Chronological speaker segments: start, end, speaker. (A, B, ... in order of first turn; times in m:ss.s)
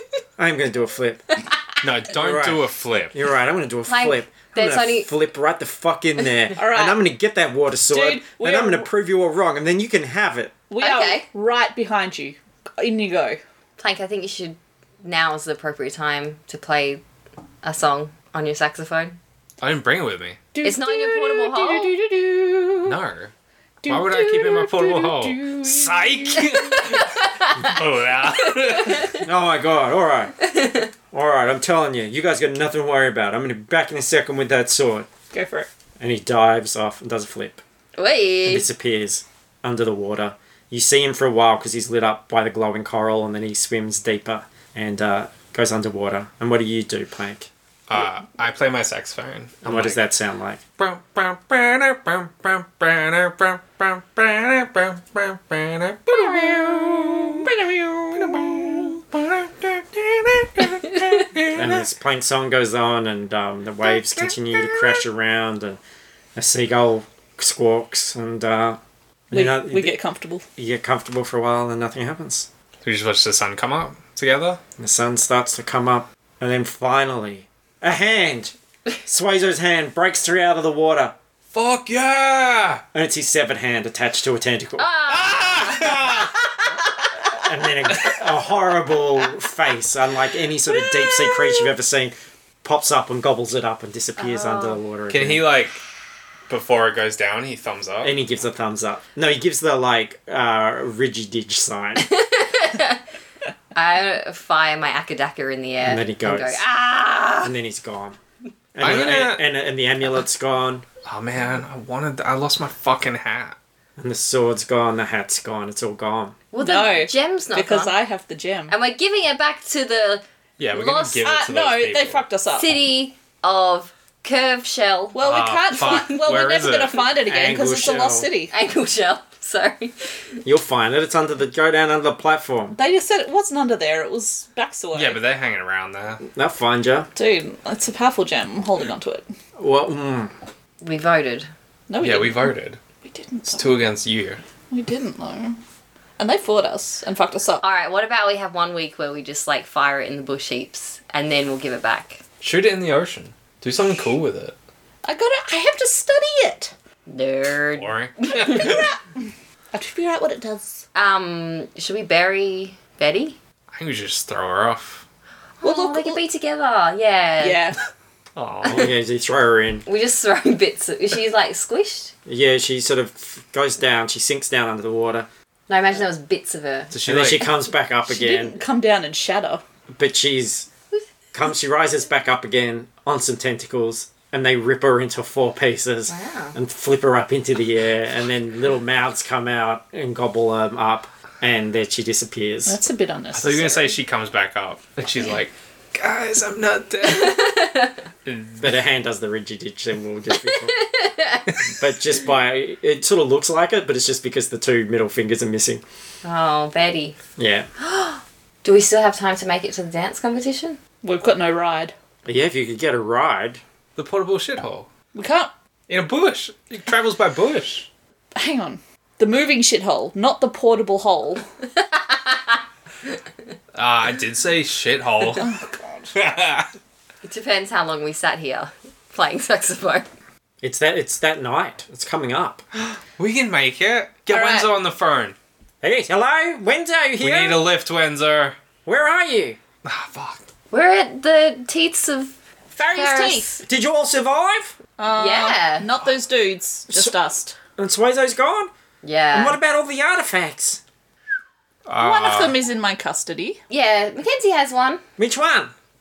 0:00.4-0:01.2 A
0:01.8-0:03.1 B
0:02.1-0:10.5 A
0:03.9-0:05.1 C
0:06.6-0:07.0 D
0:07.9-0:08.9 D
0:10.7-0:13.4 D
0:10.8-0:11.3 C
0:13.8-0:17.0 C
0:17.6-0:19.2 C
0:19.6-0:20.5 B
0:20.5-0:23.0 D
0:20.6-0:21.9 C
0:22.8-0:23.3 B
0:23.8-0:27.0 D
0:23.9-0:29.1 B
0:26.7-0:27.8 C
0:28.5-0:29.2 C
0:29.2-0:30.4 A
0:30.4-0:30.9 C
0:31.1-0:35.1 A
0:35.3-0:35.7 D
0:36.0-0:37.6 A
0:38.0-0:38.7 C
0:38.4-0:47.5 A
0:47.9-0:50.0 B
0:49.6-0:50.6 A
0:50.8-1:01.8 B
0:56.5-0:57.0 D
0:57.7-0:58.8 D
1:01.5-1:05.8 A
1:03.8-1:05.0 C
1:06.3-1:10.0 A
1:09.3-1:10.4 D
1:10.6-1:12.5 A
1:12.8-1:14.6 B
1:14.8-1:18.5 A
1:19.0-1:21.1 A
1:21.5-1:22.8 B
1:22.9-1:26.0 A
1:24.8-1:26.2 C
1:25.2-1:26.4 B
1:27.3-1:32.1 A
1:30.9-1:31.6 C
1:32.6-1:35.4 A
1:34.2-1:34.8 C
1:35.1-1:35.8 B
1:36.5-1:38.1 B
1:38.0-1:42.1 A
1:42.0-1:43.0 C
1:43.7-1:47.5 C
1:45.8-1:46.6 A
1:47.4-1:48.2 A
1:48.7-1:50.8 A
1:48.8-1:49.4 B
1:51.0-1:53.6 B
1:54.0-1:56.4 A
1:56.5-1:57.9 C
1:56.6-1:58.7 D
1:58.7-2:01.3 C
2:00.6-2:02.2 B
2:01.2-2:02.8 D
2:02.5-2:05.2 C
2:05.1-2:08.5 D
2:05.2-2:07.0 B
2:05.8-2:06.2 C
2:07.2-2:08.3 A
2:08.5-2:10.2 C
2:10.4-2:12.8 A
2:12.7-2:15.2 D
2:14.9-2:16.2 B
2:16.2-2:17.1 A
2:17.1-2:19.2 D
2:19.6-2:20.3 A
2:20.8-2:21.5 C
2:21.9-2:23.7 D
2:22.0-2:22.8 B
2:23.5-2:24.4 B
2:24.7-2:25.6 D
2:26.2-2:27.6 D
2:27.6-2:32.2 C
2:32.4-2:34.6 B
2:35.0-2:36.7 D
2:37.1-2:38.8 C
2:37.8-2:38.8 B
2:38.4-2:40.8 D
2:40.9-2:43.4 C
2:43.7-2:45.0 B
2:45.6-2:47.6 C
2:45.6-2:46.2 D
2:47.4-2:47.8 D
2:48.4-2:48.9 B
2:48.6-2:49.8 A
2:49.8-2:52.1 C
2:52.2-2:55.3 A
2:55.7-2:56.9 C
2:56.9-2:57.5 B
2:57.0-2:58.5 A
2:58.1-2:59.6 D
2:59.9-3:00.7 A
3:01.3-3:12.8 A
3:06.1-3:06.6 C
3:12.6-3:14.0 D
3:13.3-3:17.5 B
3:17.0-3:18.0 C
3:18.2-3:18.8 B
3:18.6-3:20.8 A
3:20.5-3:21.6 C
3:21.6-3:25.8 A
3:26.2-3:27.2 C
3:27.4-3:27.7 A
3:27.8-3:30.8 C
3:31.0-3:31.9 D
3:32.2-3:33.6 A
3:34.0-3:34.9 B
3:35.1-3:35.5 D
3:35.9-3:37.9 B
3:38.3-3:41.4 D
3:41.8-3:42.5 C
3:43.7-3:45.5 B
3:45.4-3:46.1 D
3:46.1-3:46.7 B
3:47.2-3:50.1 C
3:50.6-3:52.6 A
3:52.9-3:55.4 B
3:54.3-3:54.7 D
3:55.8-3:57.6 A
3:57.2-3:58.6 B
3:58.8-3:59.6 A
3:59.8-4:00.4 B
4:00.7-4:02.3 C
4:02.7-4:03.6 D
4:02.9-4:03.6 C
4:03.6-4:04.8 A
4:05.0-4:07.6 D
4:05.2-4:05.9 C
4:06.9-4:07.2 A
4:07.8-4:08.7 A
4:09.0-4:09.6 C
4:09.3-4:10.8 A
4:11.9-4:12.6 B
4:12.0-4:13.6 D
4:13.7-4:15.0 C
4:15.2-4:15.7 A